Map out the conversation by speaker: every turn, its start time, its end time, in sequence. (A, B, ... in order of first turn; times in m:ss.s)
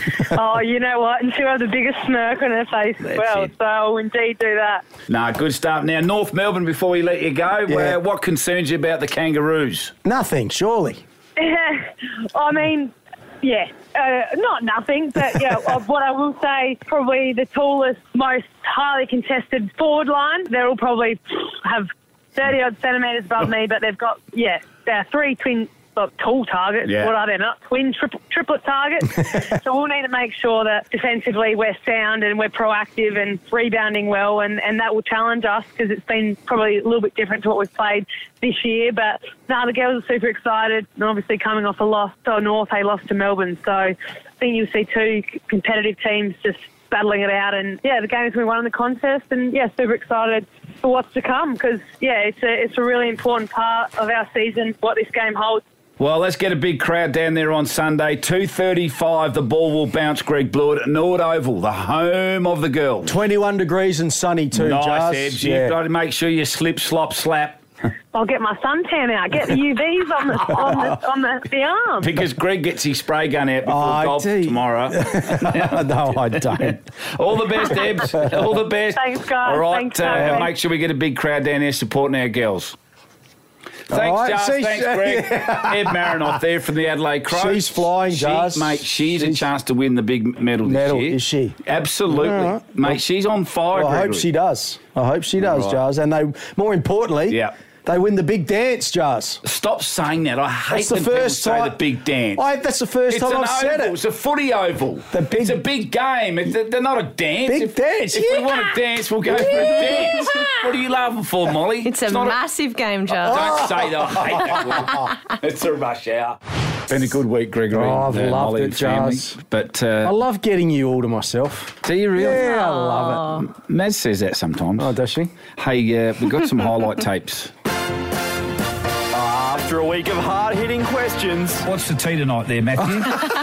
0:00.2-0:04.8 A
0:03.0-0:03.5 B
0:05.1-0:09.9 B
0:07.7-0:08.0 C
0:10.0-0:11.0 C
0:11.4-0:55.6 A
0:26.9-0:27.1 B
0:56.0-1:03.2 B
1:03.0-1:05.7 C
1:04.5-1:07.6 B
1:08.1-1:12.1 A
1:12.0-1:22.8 B
1:13.6-1:16.8 C
1:19.0-1:20.5 A
1:20.1-1:20.5 C
1:23.9-1:34.3 B
1:23.9-1:26.4 C
1:27.3-1:29.5 C
1:30.6-1:31.6 C
1:32.1-1:33.0 C
1:33.7-1:39.4 C
1:35.4-1:35.8 B
1:39.4-1:42.4 B
1:40.7-1:41.8 C
1:42.4-1:44.0 C
1:43.1-1:52.4 B
1:45.1-1:45.6 C
1:47.4-1:48.6 C
1:49.6-1:49.9 C
1:51.8-1:53.7 D
1:53.1-2:00.1 B
1:53.3-1:54.0 C
1:57.7-1:59.4 C
2:00.0-2:03.4 C
2:01.8-2:02.6 B
2:02.2-2:03.4 D
2:03.3-2:05.0 B
2:04.8-2:05.3 C
2:05.6-2:07.5 B
2:09.1-2:11.6 E
2:11.6-2:13.2 B